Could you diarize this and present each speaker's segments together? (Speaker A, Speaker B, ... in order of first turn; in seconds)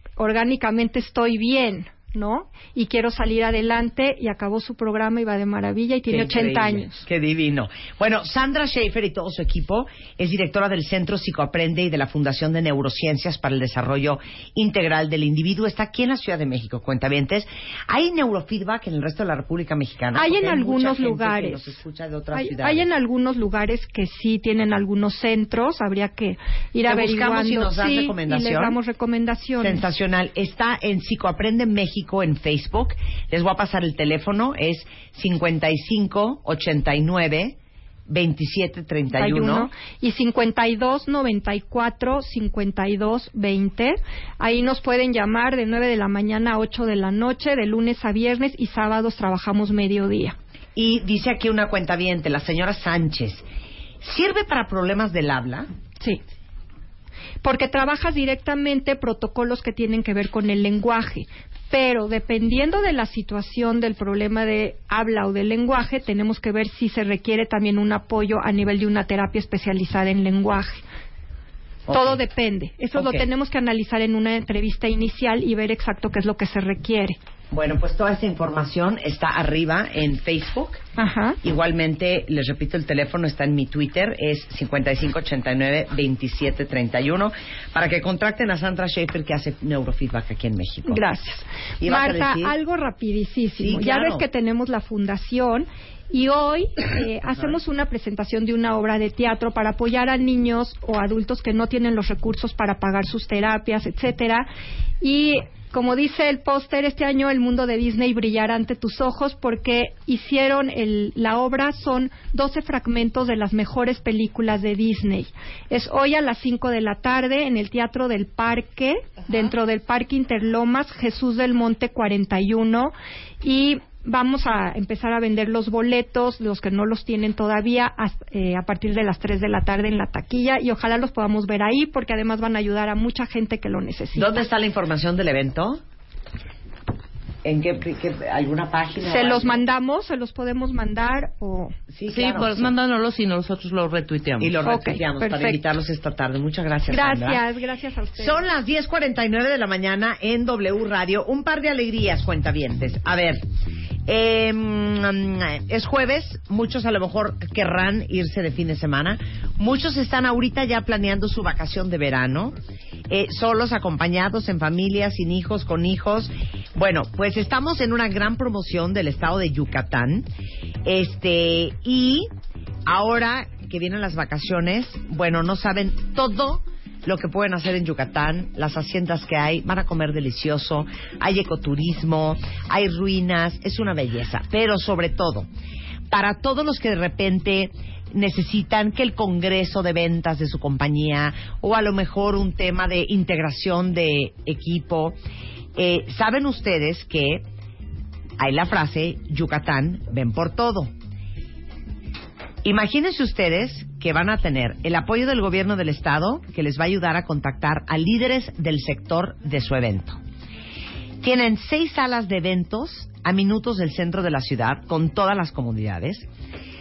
Speaker A: 0.2-7.0, 20.1-21.8, 22.3-29.8, 39.1-50.3, 57.4-70.8, 71.9-77.2, 81.0-81.4, 90.9-104.5, 105.0-134.4, 139.0-141.7, 144.6-145.6, 146.9-148.4
Speaker B: 6.1-22.9, 26.9-28.8, 29.6-37.5, 38.1-39.7, 50.8-53.4, 54.0-55.7, 71.9-72.2, 72.9-73.2, 77.5-80.8, 81.4-91.0, 91.8-92.5, 93.6-94.2, 134.1-135.8, 137.4-139.6, 141.9-142.7, 144.4-147.4, 148.2-153.4, 154.1-162.6, 163.1-170.3, 170.8-172.3, 172.8-185.5, 186.1-195.2, 195.8-197.4, 198.4-200.9, 202.6-210.2, 211.2-216.3
Speaker C: 142.1-144.6